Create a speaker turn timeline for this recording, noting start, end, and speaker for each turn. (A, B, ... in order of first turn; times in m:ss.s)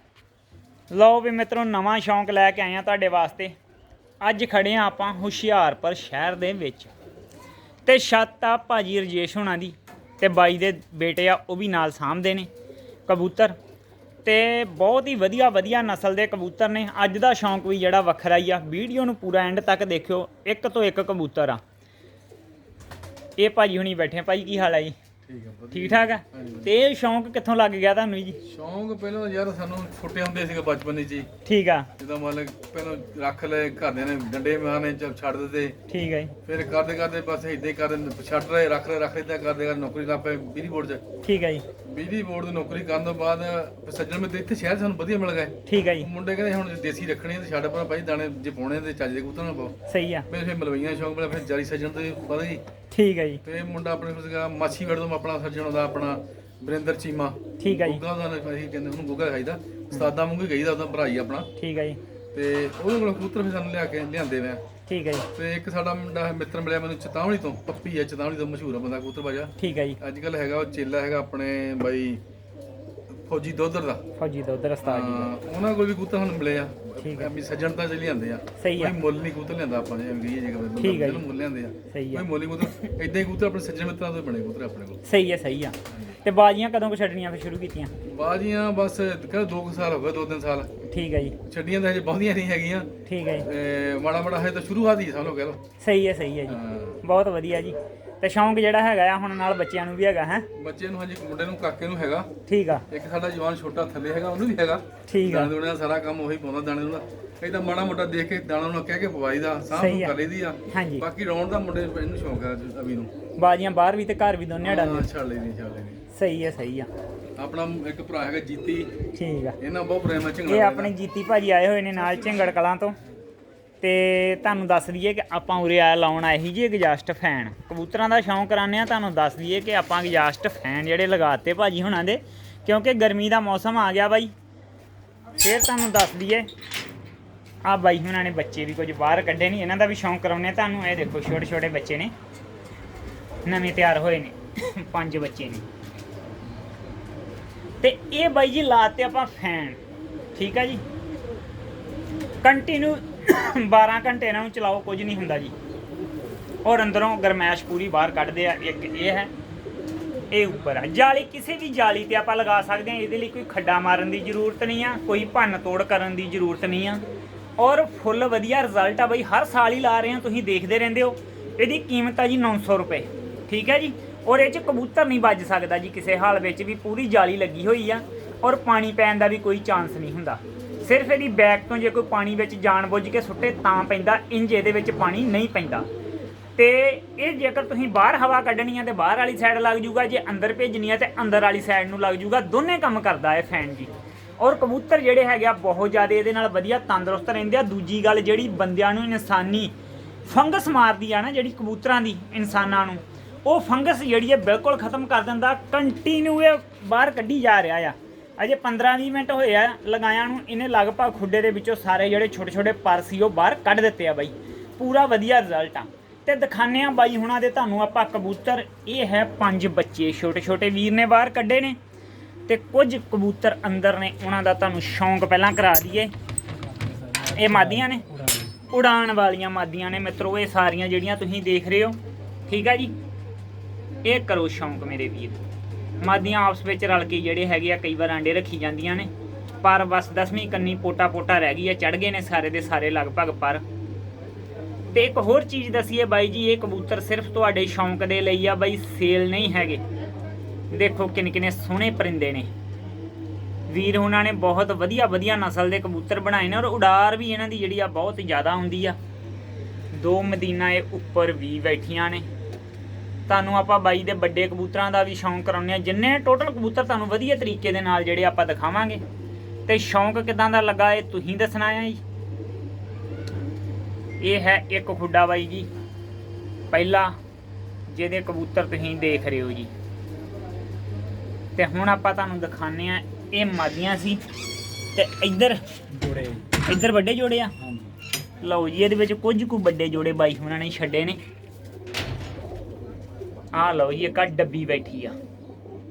0:00.9-0:03.6 A
0:04.2-0:06.9 A
0:07.9-0:12.5 A
0:13.1-0:13.6 A
0:14.2-0:21.6 A
0:23.4-0:25.0 A
0:25.2-0:26.7 B
0:25.7-0:28.4 A
0:28.4-0:31.3 B
0:31.4-0:31.9 A
0:32.0-0:35.8 B
0:35.9-0:36.4 A
0:36.4-0:41.0 B
0:41.2-0:41.6 A
0:41.8-0:49.8 B
0:45.7-0:46.1 A
0:49.9-0:50.3 A
0:50.3-0:52.6 B
0:52.9-0:53.4 A
0:53.4-1:01.5 B
0:57.6-0:58.0 A
1:01.6-1:02.0 A
1:02.3-1:04.6 B
1:04.9-1:05.3 A
1:05.4-1:12.2 B
1:09.6-1:10.0 A
1:13.1-1:14.0 B
1:14.2-1:15.3 A
1:14.8-1:25.0 B
1:17.0-1:17.3 A
1:18.6-1:19.0 A
1:20.8-1:21.3 A
1:21.9-1:22.9 A
1:25.0-1:27.9 A
1:28.0-1:30.7 B
1:30.9-1:31.4 A
1:31.5-1:35.6 B
1:33.1-1:33.5 A
1:35.8-1:40.5 A
1:36.5-1:37.0 B
1:40.6-1:42.3 B
1:42.5-1:42.9 A
1:42.9-1:53.1 B
1:45.1-1:45.5 A
1:49.7-1:50.2 A
1:50.7-1:51.1 A
1:53.4-1:55.1 A
1:54.6-1:56.0 B
1:56.1-1:56.9 A
1:57.4-1:58.9 B
1:59.2-1:59.6 A
1:59.6-2:01.0 B
2:00.4-2:03.0 A
2:03.8-2:14.3 A
2:15.4-2:16.5 A
2:17.6-2:22.1 A
2:23.4-2:25.7 A
2:27.8-2:29.8 A
2:30.4-2:30.8 A
2:32.4-2:35.6 A
2:36.6-2:39.3 A
2:40.3-2:47.0 A
2:47.6-3:05.9 A
3:06.6-3:19.7 A
3:20.2-3:41.8 A
3:42.5-3:46.1 A
3:46.5-3:48.6 C
3:47.3-3:48.0 A
3:48.7-3:52.9 A
3:54.0-3:55.4 A
3:56.0-3:59.1 A
3:59.6-4:03.6 A
4:04.9-4:09.8 A
4:10.7-4:12.5 A
4:13.7-4:19.0 A
4:19.9-4:22.3 A
4:23.3-4:29.0 A
4:29.7-4:32.0 A
4:34.2-4:35.7 A
4:36.7-4:37.2 A
4:37.9-4:39.7 A
4:41.6-4:44.2 A
4:45.0-4:45.6 A
4:45.9-4:46.5 C
4:46.6-4:47.5 A
4:47.6-4:47.9 C
4:48.4-4:51.2 A
4:53.5-4:55.2 A